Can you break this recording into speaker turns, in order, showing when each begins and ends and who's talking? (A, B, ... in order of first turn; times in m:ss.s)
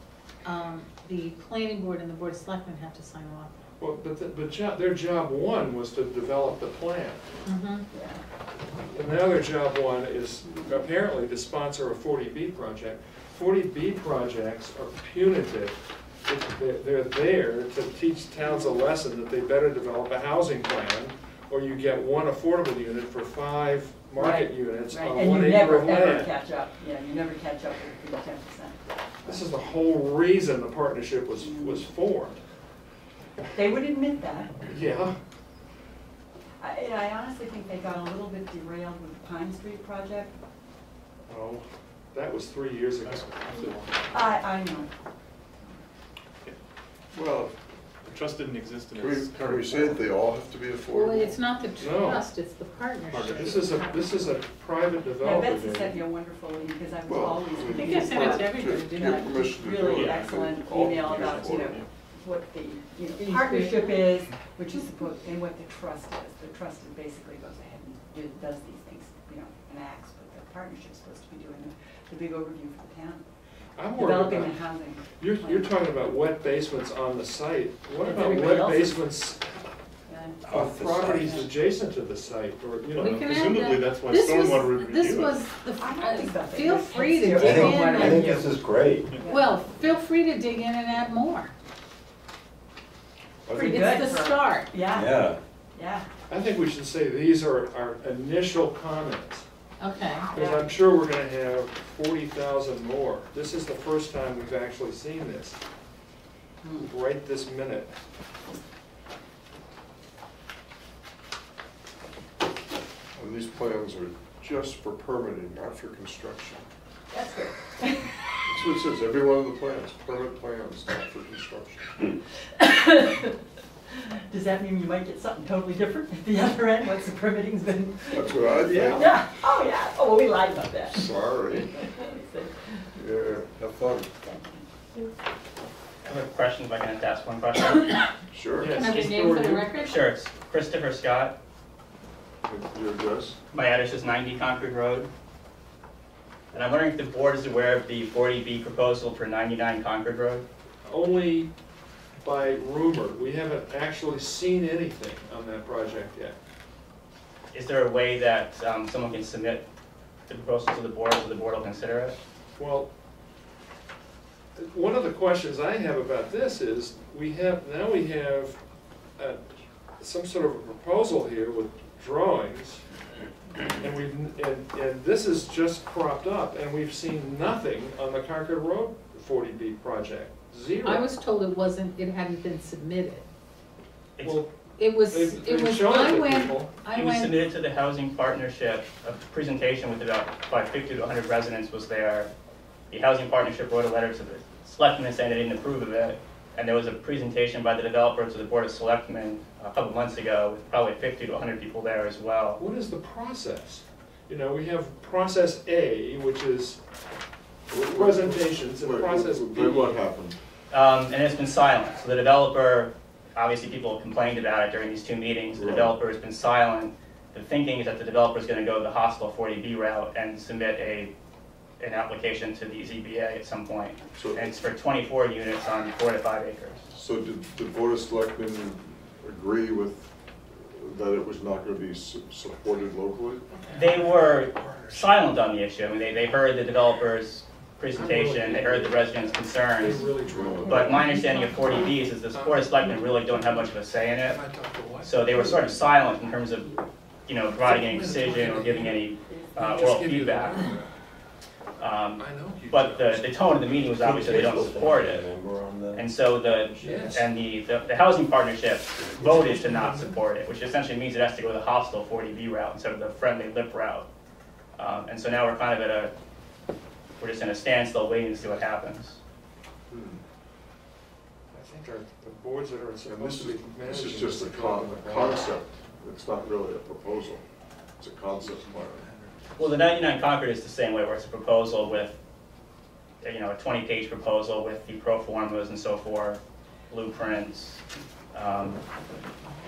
0:00.4-0:03.5 A
0:03.8-0:07.2 B
0:07.4-0:07.8 A
0:07.9-0:08.2 C
0:08.9-0:26.3 B
0:24.2-0:29.4 C
0:29.2-0:32.4 B
0:31.4-0:31.9 C
0:33.5-0:34.6 C
0:34.7-0:35.2 B
0:36.6-0:40.3 C
0:41.3-0:43.5 B
0:43.0-0:44.4 D
0:44.1-0:44.9 C
0:47.1-0:47.5 E
0:48.0-0:50.1 D
0:48.9-0:51.4 E
0:50.9-0:54.2 A
0:51.8-0:52.2 B
0:53.1-0:53.7 D
0:53.4-0:56.0 B
0:55.2-1:13.2 C
0:57.0-1:01.8 E
0:57.7-0:59.3 A
0:59.9-1:01.9 D
1:03.2-1:04.1 A
1:13.8-1:14.6 B
1:14.0-1:15.8 C
1:15.1-1:19.6 B
1:18.0-1:19.1 C
1:20.1-1:20.4 C
1:20.4-1:21.5 F
1:20.4-1:23.3 B
1:22.9-1:28.4 A
1:23.0-1:25.4 D
1:25.8-1:28.5 C
1:27.4-1:29.2 F
1:29.2-1:29.6 C
1:29.2-1:31.5 A
1:33.5-1:35.2 C
1:33.5-1:34.7 A
1:34.9-1:35.4 F
1:35.7-1:36.0 C
1:36.3-1:39.4 B
1:39.8-1:40.3 A
1:40.3-1:45.6 B
1:40.4-1:40.6 C
1:46.6-1:46.9 A
1:46.8-1:47.9 B
1:53.2-1:56.6 E
1:57.1-1:58.2 C
1:58.4-2:01.9 E
2:02.6-2:03.4 C
2:04.0-2:13.0 C
2:08.1-2:09.1 E
2:08.7-2:09.1 B
2:10.9-2:11.7 E
2:13.0-2:14.1 E
2:14.2-2:14.6 C
2:16.0-2:18.1 G
2:18.3-2:18.8 E
2:18.6-2:19.8 B
2:18.7-2:20.0 A
2:19.8-2:21.3 G
2:22.4-2:23.4 E
2:23.5-2:25.1 G
2:26.5-2:30.4 G
2:30.8-2:31.5 B
2:32.2-2:36.3 B
2:37.5-2:39.6 G
2:40.3-2:42.2 G
2:42.6-2:42.9 B
2:44.6-2:48.6 B
2:49.2-2:49.4 B
2:50.0-2:52.8 B
2:53.6-3:01.1 B
3:00.8-3:03.2 A
3:04.2-3:04.4 G
3:04.2-3:06.7 B
3:04.8-3:07.3 A
3:06.9-3:12.3 G
3:12.9-3:22.6 G
3:22.6-3:26.8 B
3:27.7-3:30.4 E
3:27.9-3:30.0 B
3:30.7-3:41.1 G
3:35.5-3:35.9 E
3:41.8-3:46.8 G
3:44.1-3:44.5 E
3:46.9-3:50.1 E
3:50.6-3:53.4 E
3:53.6-3:55.1 B
3:53.7-4:00.1 G
3:57.9-4:03.6 B
4:00.3-4:01.0 E
4:00.6-4:04.4 G
4:04.2-4:05.8 B
4:05.0-4:10.6 G
4:07.6-4:10.9 B
4:09.2-4:09.7 C
4:11.8-4:15.3 G
4:12.2-4:13.9 B
4:13.9-4:16.1 F
4:15.9-4:24.1 G
4:16.6-4:17.0 F
4:16.8-4:17.2 B
4:19.2-4:20.2 B
4:24.8-4:26.1 G
4:27.2-4:29.2 G
4:29.9-4:30.2 E
4:31.5-4:35.5 B
4:33.0-4:37.4 E
4:38.0-4:39.0 E
4:39.6-4:42.2 G
4:43.2-4:47.8 G
4:48.3-4:48.8 G